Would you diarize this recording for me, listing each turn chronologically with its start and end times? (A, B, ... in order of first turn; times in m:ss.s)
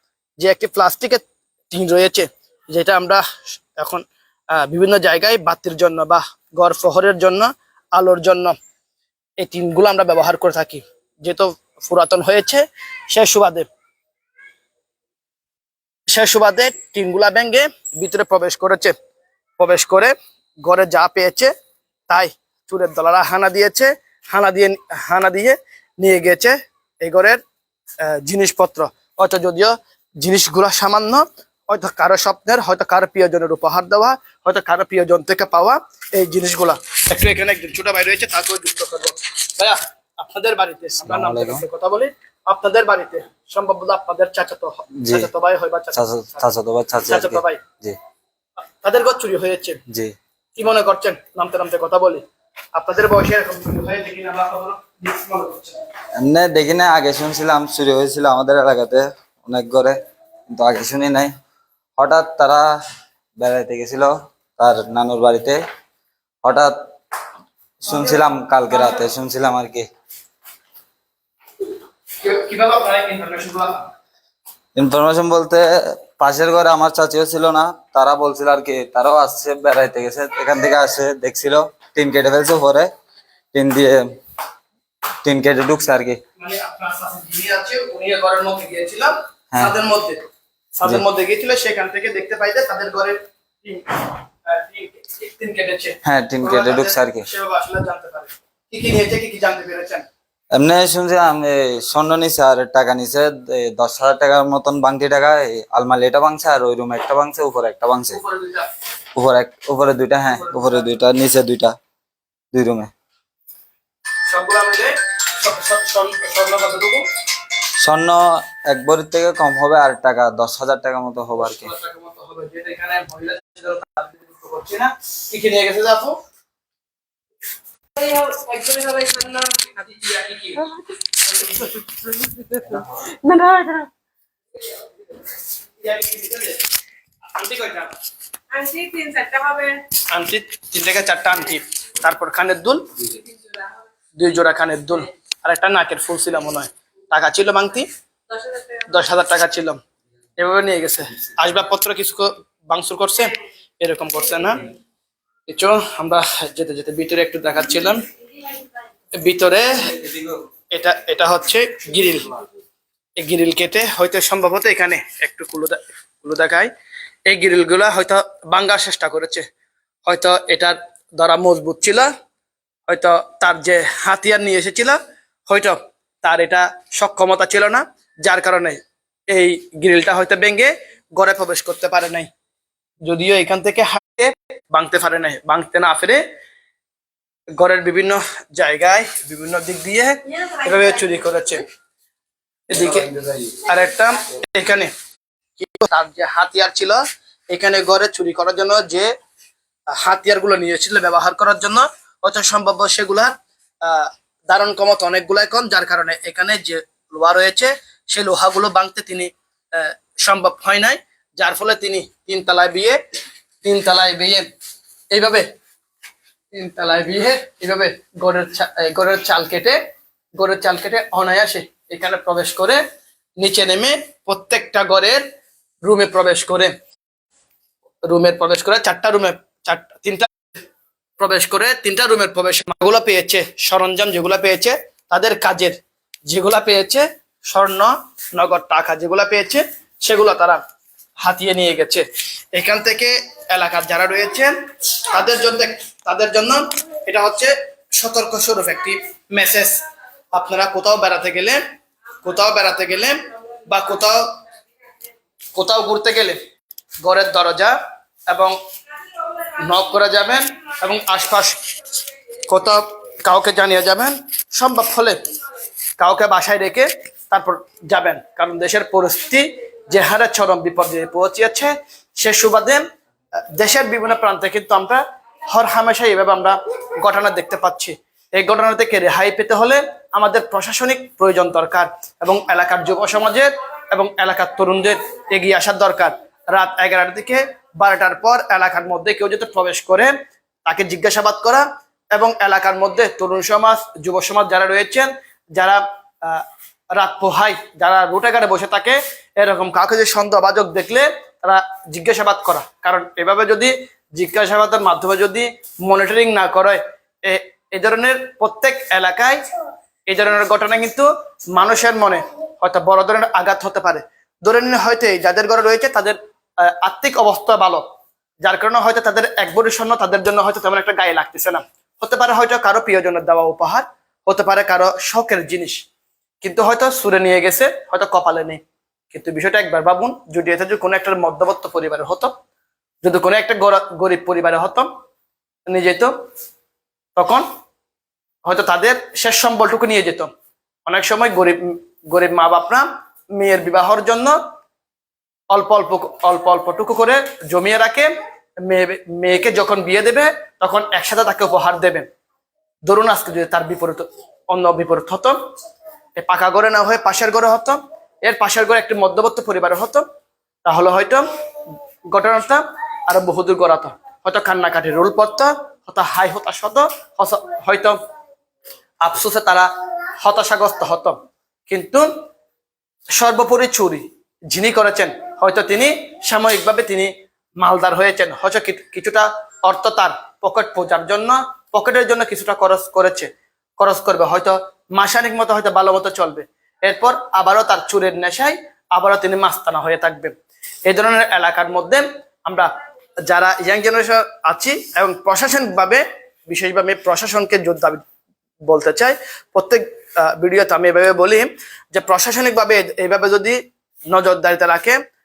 0:00.4-0:03.2 A
0:03.8-0:04.0 A
0:04.6-0:08.6 A
0:09.4-0:13.7 A
0:16.1-0:19.0 A
0:19.6-0:21.5 A
0:22.1-0:27.4 A
0:28.0-0:46.4 A
0:41.1-0:41.6 B
0:45.0-0:45.3 B
0:45.9-0:48.0 B
0:47.1-0:47.6 A
0:48.8-0:49.8 A
0:50.6-0:52.2 A
0:52.8-0:55.8 A
0:56.2-1:00.0 B
1:00.5-1:01.3 B
1:02.0-1:02.7 B
1:03.4-1:05.6 B
1:06.4-1:06.9 B
1:07.8-1:09.9 B
1:12.2-1:13.8 A
1:14.8-1:22.9 B
1:23.5-1:24.1 B
1:25.2-1:26.2 B
1:26.4-1:30.2 A
1:30.8-1:40.0 A
1:36.0-1:37.2 B
1:40.5-1:48.2 B
1:48.1-1:48.7 A
1:49.2-1:51.8 B
1:50.3-1:50.9 A
1:52.5-1:52.9 B
1:54.3-1:57.1 A
1:57.8-2:01.7 B
2:01.4-2:06.2 A
2:08.0-2:09.1 C
2:09.0-2:10.7 A
2:12.0-2:13.9 C
2:15.8-2:16.6 A
2:17.3-2:17.9 A
2:18.5-2:19.8 C
2:20.1-2:22.9 A
2:24.2-2:27.9 A
2:28.7-2:29.8 A
2:30.4-2:34.7 A
2:35.5-2:38.0 A
2:39.2-2:40.0 A
2:40.7-2:42.4 A
2:43.2-2:46.7 A
2:47.3-2:49.5 A
2:50.1-2:52.1 A
2:52.9-2:55.0 A
2:55.5-2:58.8 A
2:59.3-3:02.3 A
3:03.1-3:06.2 A
3:07.6-3:11.6 A
3:12.7-3:14.9 A
3:15.6-3:17.0 A
3:17.5-3:19.1 A
3:19.9-3:33.0 A
3:33.6-3:34.5 A
3:35.1-3:35.5 A
3:36.5-3:39.8 A
3:40.4-3:42.8 A
3:43.4-3:45.2 A
3:45.8-3:46.7 A
3:48.1-3:50.3 A
3:51.2-3:55.8 A
3:56.3-4:00.6 A
4:01.2-4:09.8 A
4:10.3-4:11.6 A
4:12.2-4:14.2 A
4:15.6-4:16.4 A
4:17.0-4:17.8 A
4:18.3-4:18.6 A
4:19.5-4:21.6 A
4:22.5-4:25.2 A
4:26.0-4:32.8 A
4:33.6-4:50.1 A
4:50.7-5:09.4 A
5:10.1-5:17.8 A
5:18.4-5:25.8 A
5:26.4-5:28.6 A
5:29.1-5:32.3 A
5:33.0-5:34.9 A
5:35.7-5:36.1 A
5:37.2-5:37.5 A
5:38.5-5:40.3 A
5:40.9-5:44.4 A
5:45.5-5:48.1 A
5:48.6-5:52.1 A
5:52.9-5:55.4 A
5:56.2-6:00.0 A
6:00.7-6:01.3 A
6:02.1-6:08.0 A
6:09.0-6:09.7 A
6:10.2-6:11.2 A
6:11.7-6:12.1 A
6:13.2-6:30.3 A
6:30.9-6:32.7 A
6:33.3-6:38.0 A
6:38.7-6:43.6 A
6:44.1-6:45.0 A